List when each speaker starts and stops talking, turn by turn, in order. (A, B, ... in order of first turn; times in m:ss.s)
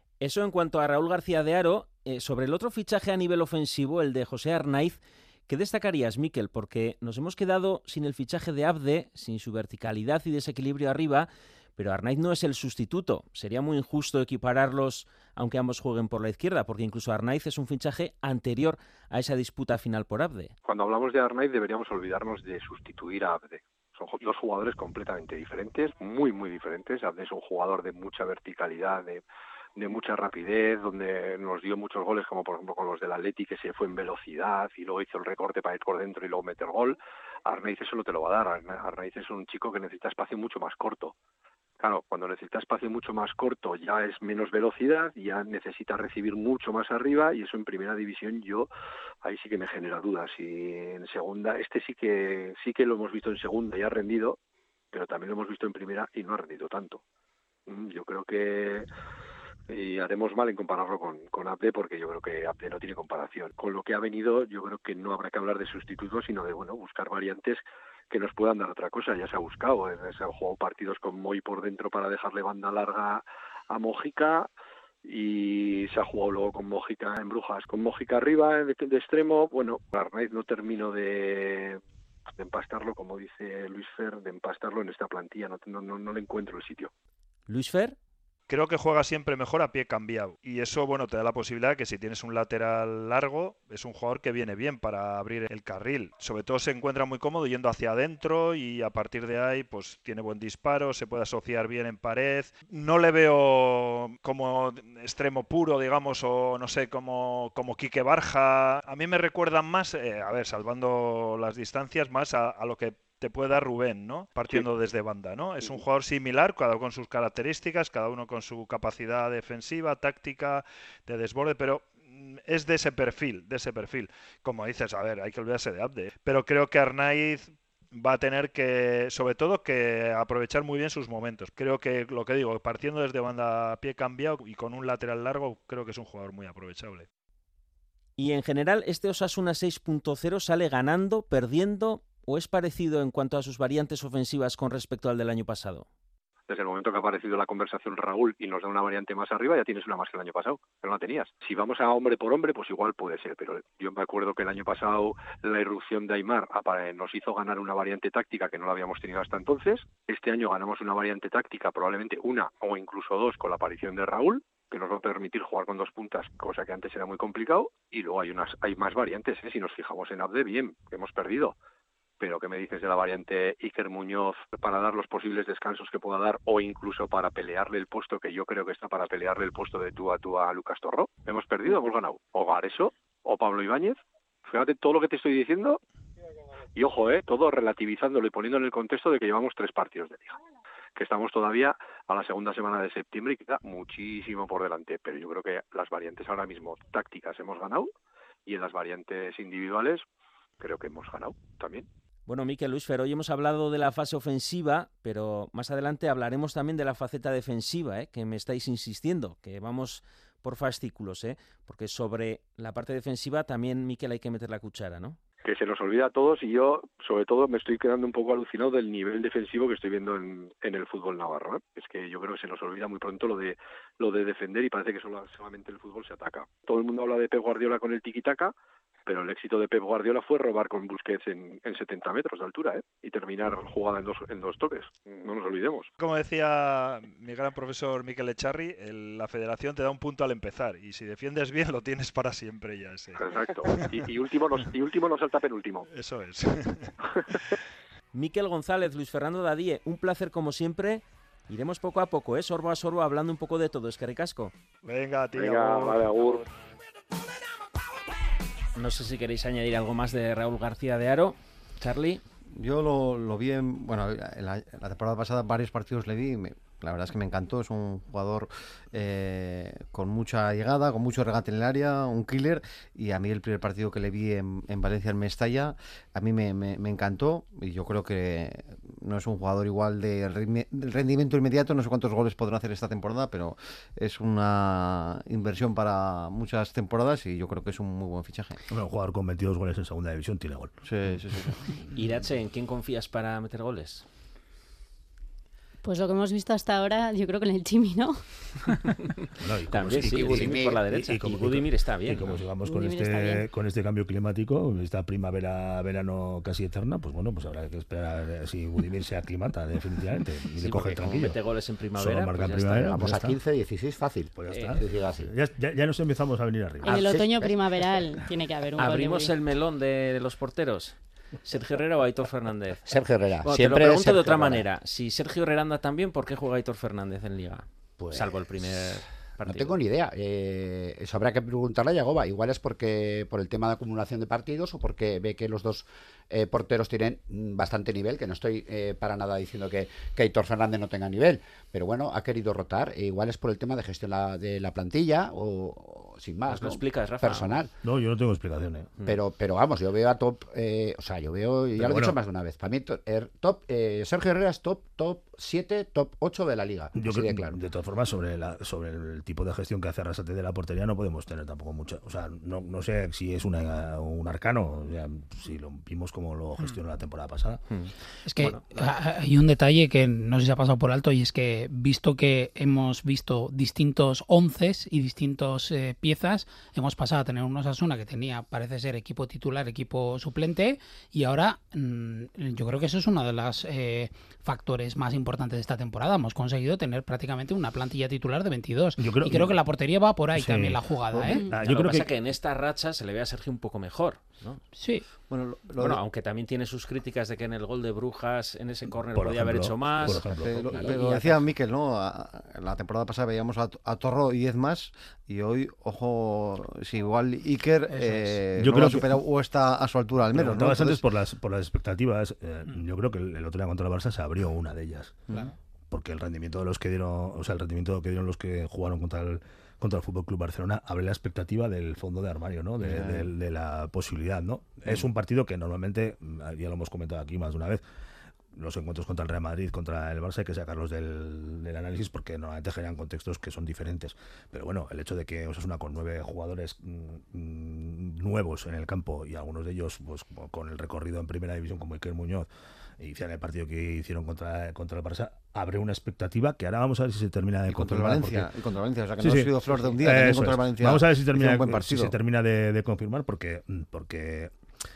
0:00.2-0:05.0 A
0:05.5-0:20.5 A
0:20.6-0:29.2 B
0:29.8-0:41.1 B
0:41.8-0:48.7 B
0:49.2-0:54.4 B
0:54.9-0:57.0 B
0:57.7-0:58.9 B
0:59.7-1:14.5 B
1:15.0-1:21.8 B
1:22.4-1:26.9 B
1:27.5-1:28.0 A
1:28.5-2:17.1 C
2:18.2-2:25.9 A
2:26.5-2:51.6 B
2:52.2-3:05.8 B
3:06.8-3:10.4 B
3:11.0-3:17.9 B
3:18.5-3:20.0 B
3:20.6-3:21.9 B
3:22.3-3:35.2 A
3:35.4-3:48.5 B
3:49.1-3:55.9 B
3:56.0-4:04.0 C
4:03.2-4:05.9 B
4:05.9-4:07.4 C
4:08.1-4:14.5 A
4:14.8-4:16.4 C
4:15.4-4:16.4 B
4:18.8-4:22.2 A
4:22.6-4:48.6 D
4:48.7-4:50.8 E
4:50.8-4:51.6 D
4:52.0-4:54.0 A
4:55.8-4:58.3 F
4:59.4-5:11.4 E
4:59.7-5:02.3 A
4:59.9-5:00.8 G
5:02.6-5:03.5 F
5:10.6-5:13.0 A
5:12.0-5:13.4 E
5:12.8-5:15.3 G
5:14.4-5:17.0 E
5:14.5-5:14.8 A
5:16.8-5:19.3 F
5:16.9-5:17.6 G
5:18.8-5:29.8 A
5:22.9-5:24.6 G
5:28.0-5:47.7 G
5:46.5-5:47.6 A
5:47.8-5:49.0 E
5:49.0-5:57.6 G
5:51.8-5:52.2 E
5:57.0-6:07.6 E
6:07.7-6:08.6 A
6:08.3-6:31.4 H
6:29.0-6:29.6 E
6:30.3-6:32.1 E
6:31.6-6:34.6 A
6:34.8-6:35.1 H
6:35.3-6:36.0 D
6:35.8-6:40.3 A
6:39.1-6:40.9 E
6:40.0-6:51.0 D
6:40.2-6:41.4 G
6:47.9-6:48.4 H
6:48.6-6:49.1 E
6:50.3-6:55.3 E
6:55.9-7:07.8 E
7:02.8-7:03.3 D
7:08.5-7:28.5 E
7:27.7-7:32.2 D
7:29.2-7:34.5 E